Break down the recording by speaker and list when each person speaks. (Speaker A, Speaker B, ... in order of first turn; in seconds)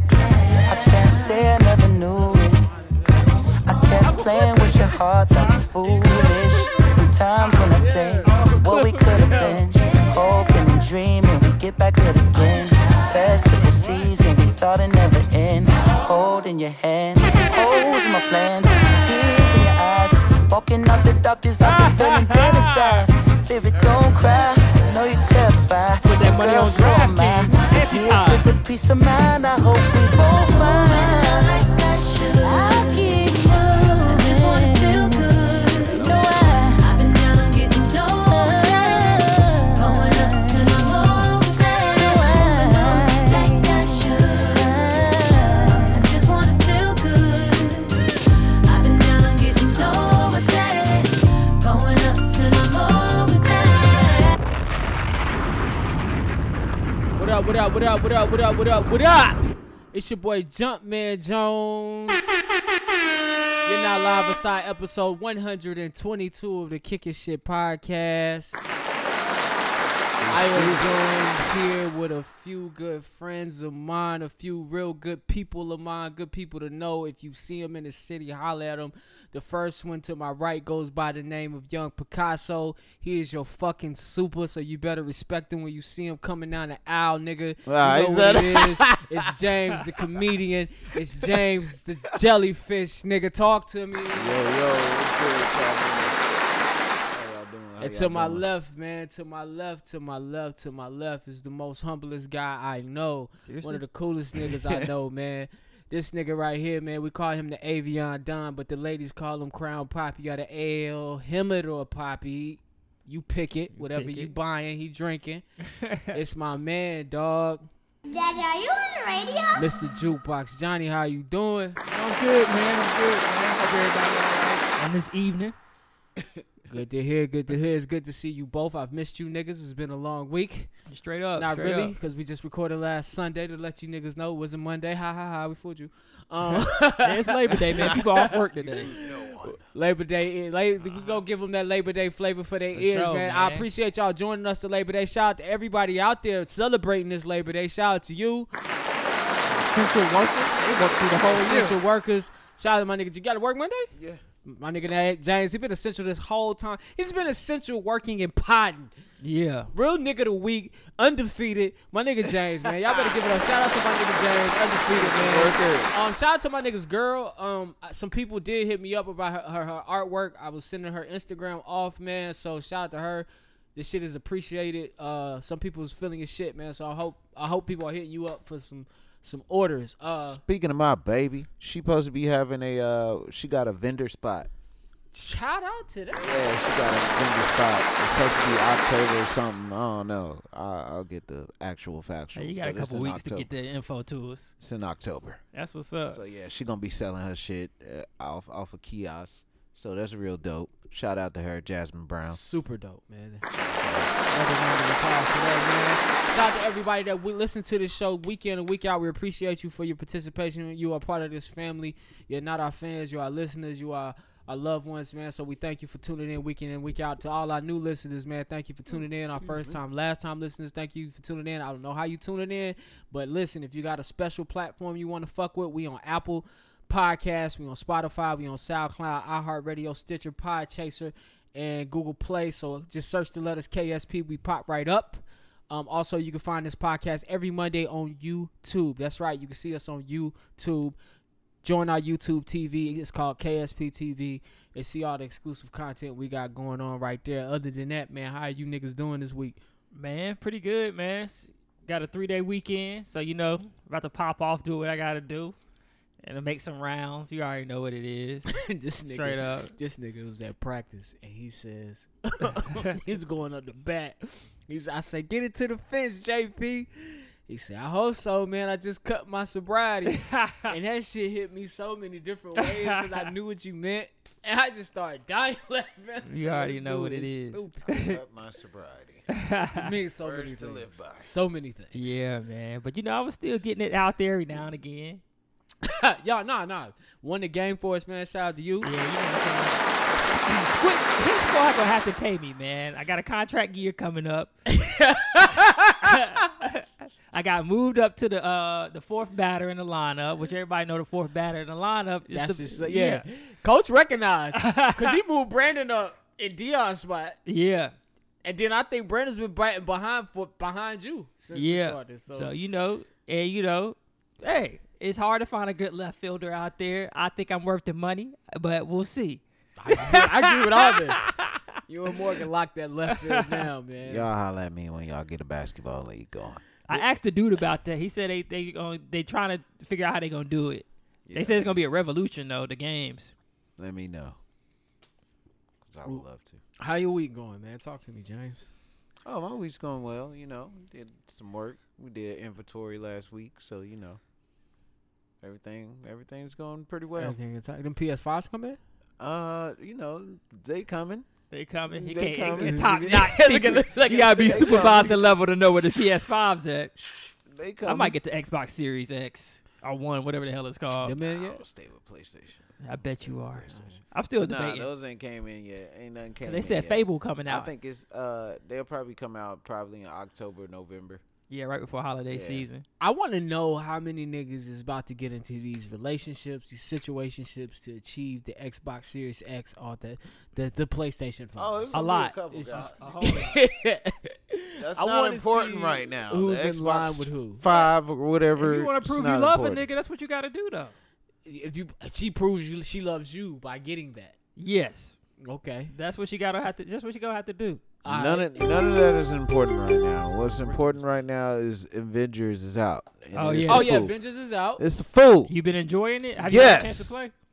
Speaker A: 0.1-1.4, 9.9-10.4, 12.4-13.3, 30.3-54.3
Speaker B: 0.7-2.6, 3.5-31.6
Speaker C: 2.1-4.8, 5.4-6.7, 7.4-8.7, 13.7-14.0, 57.1-62.2, 63.6-68.6, 70.3-94.4, 97.8-115.4, 116.1-117.7, 119.5-121.8, 126.7-130.7, 131.3-148.5, 151.3-153.9, 154.4-158.9, 159.7-180.4, 185.1-186.4, 202.2-203.4, 204.3-240.9, 241.6-249.6, 258.5-277.9, 279.7-282.2, 285.8-288.9, 294.7-296.4, 302.3-307.4, 308.4-312.5, 319.8-321.3, 321.9-324.3, 336.8-338.7, 347.2-348.8, 352.6-355.2, 361.0-361.6, 363.7-364.0, 373.0-387.6, 391.4-394.3, 395.4-395.9, 398.0-398.6, 400.5-401.2, 403.7-404.8
Speaker D: 8.4-9.6, 21.6-23.0, 26.0-28.4, 103.4-103.8, 113.7-114.3, 115.7-116.2, 121.9-125.5, 130.9-131.9, 136.5-138.9, 140.9-141.2, 142.7-143.7, 149.5-151.8, 159.2-159.7, 192.3-194.5, 195.5-196.2, 249.9-255.5, 256.2-258.5, 259.1-259.7, 270.1-270.7, 272.6-273.3, 276.2-278.2, 279.3-279.9, 281.9-285.2, 288.8-289.8, 290.4-294.6, 295.4-303.2, 304.5-305.2, 307.4-307.9, 311.5-321.6, 323.1-323.7, 326.9-333.3, 351.5-356.9, 357.8-361.1, 362.8-364.9, 366.4-367.7, 371.5-372.8, 381.9-383.6, 388.6-390.9, 394.6-395.1, 395.9-397.9, 403.3-404.1, 405.5-407.3
Speaker E: 32.6-33.1, 118.1-119.7
Speaker F: 35.9-36.3, 70.2-71.1, 87.7-89.3, 89.8-90.2, 94.1-96.3, 97.1-98.4, 104.4-104.9, 126.2-126.4, 138.6-139.6, 153.9-154.2, 162.7-163.2, 164.8-165.9, 180.0-184.5, 186.1-193.5, 194.6-195.4, 196.1-202.4, 203.5-204.1, 218.9-219.8, 277.8-279.3, 280.2-281.3, 324.0-326.6, 331.3-331.8, 333.8-334.4, 335.8-336.6, 339.2-344.2, 345.4-347.4, 349.2-351.3, 351.9-353.0, 354.4-355.4, 357.5-358.2, 361.2-371.2, 372.3-372.6, 381.6-383.4, 384.8-389.8, 398.1-404.1, 404.8-405.5, 406.4-407.1